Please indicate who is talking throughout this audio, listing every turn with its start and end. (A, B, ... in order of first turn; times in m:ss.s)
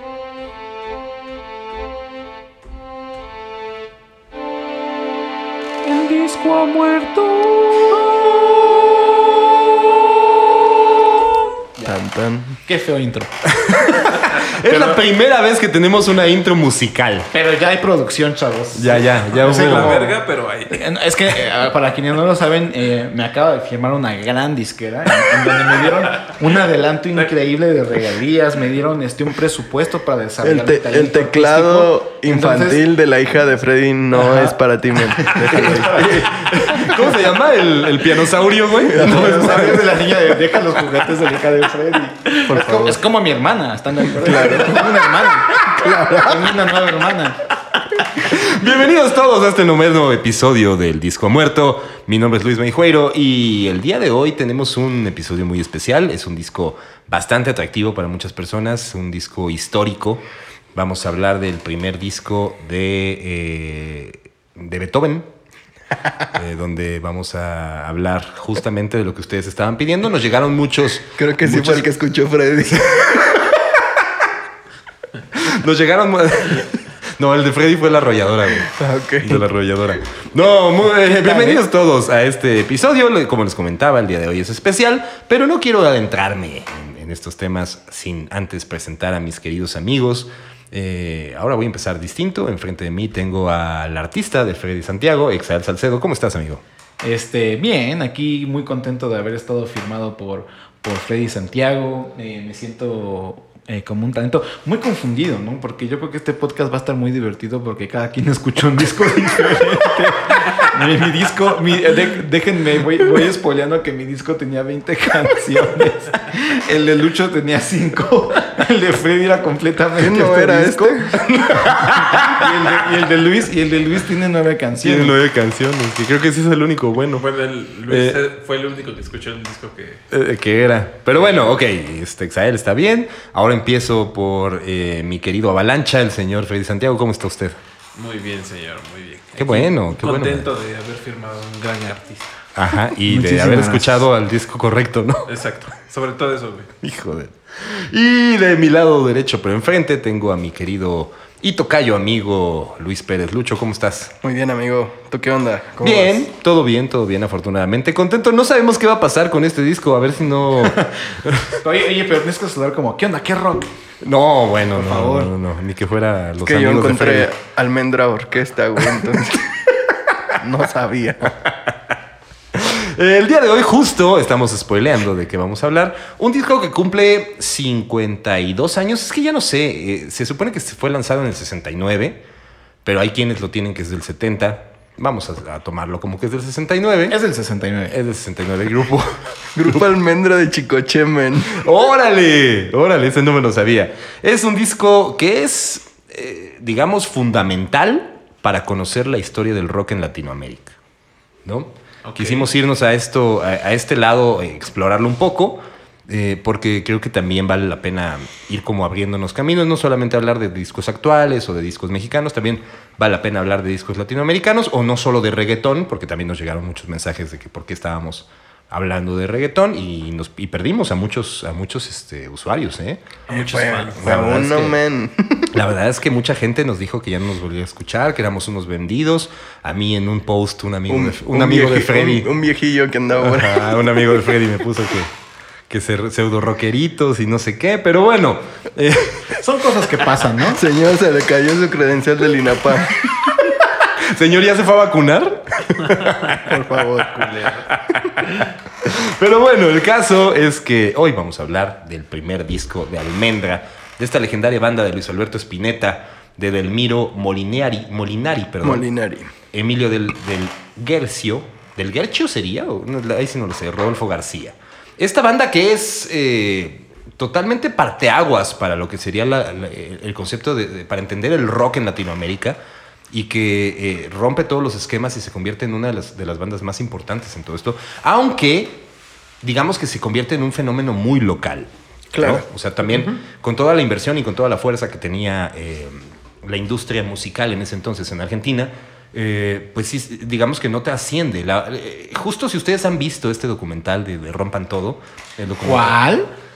0:05.8-0:09.0 A
0:11.8-0:12.6 B
0:12.6-0:13.8 A
0:13.5-0:17.3 C
0:14.7-0:14.9 A
0:17.3-0:20.2 A
0:18.7-0:20.0 C
0:19.3-0:20.8 D
0:20.7-0:32.8 A
0:30.4-0:36.3 B
0:34.1-0:34.5 A
0:35.2-0:37.2 A
0:35.6-0:40.4 C
0:38.8-0:39.5 B
0:38.9-0:45.6 A
0:42.5-0:43.0 C
0:44.2-0:44.9 B
0:45.6-0:46.1 C
0:45.6-0:46.4 B
0:46.1-0:47.4 A
0:48.2-1:00.2 C
1:00.7-1:05.3 C
1:06.3-1:11.9 C
1:11.2-1:13.1 B
1:12.8-1:13.9 C
1:15.3-1:36.6 C
1:18.8-1:19.4 B
1:21.2-1:21.6 B
1:37.0-2:05.1 A
2:00.0-2:01.1 B
2:01.3-2:02.8 C
2:04.8-2:07.2 C
2:07.2-2:10.0 D
2:07.9-2:08.2 C
2:10.1-2:17.6 C
2:17.9-2:22.4 D
2:19.4-2:20.5 C
2:22.5-2:25.3 C
2:23.0-2:24.0 A
2:25.3-2:26.7 D
2:26.8-2:34.1 C
2:34.2-2:36.3 B
2:35.8-2:41.6 C
2:41.6-2:43.7 A
2:44.0-2:47.3 C
2:44.7-2:45.3 A
2:46.4-2:49.5 B
2:50.4-2:51.4 B
2:52.5-3:02.2 C
3:02.8-3:07.2 C
3:07.1-3:08.0 A
3:07.9-3:09.9 C
3:09.6-3:11.6 B
3:11.5-3:20.7 C
3:21.4-3:43.0 C
3:22.0-3:22.5 D
3:43.3-3:44.1 D
3:43.3-3:45.5 B
3:44.0-3:44.8 C
3:45.5-3:52.3 C
3:50.9-3:54.0 B
3:53.2-3:55.1 C
3:55.7-3:59.4 C
3:59.4-4:00.6 A
4:00.4-4:03.1 B
4:03.8-4:06.5 C
4:06.4-4:07.4 B
4:07.2-4:07.7 D
4:07.7-4:18.8 C
4:18.6-4:19.3 B
4:19.5-4:32.6 C
4:33.1-4:38.8 C
4:39.4-4:56.0 C
4:42.1-4:42.4 B
4:55.6-4:56.3 A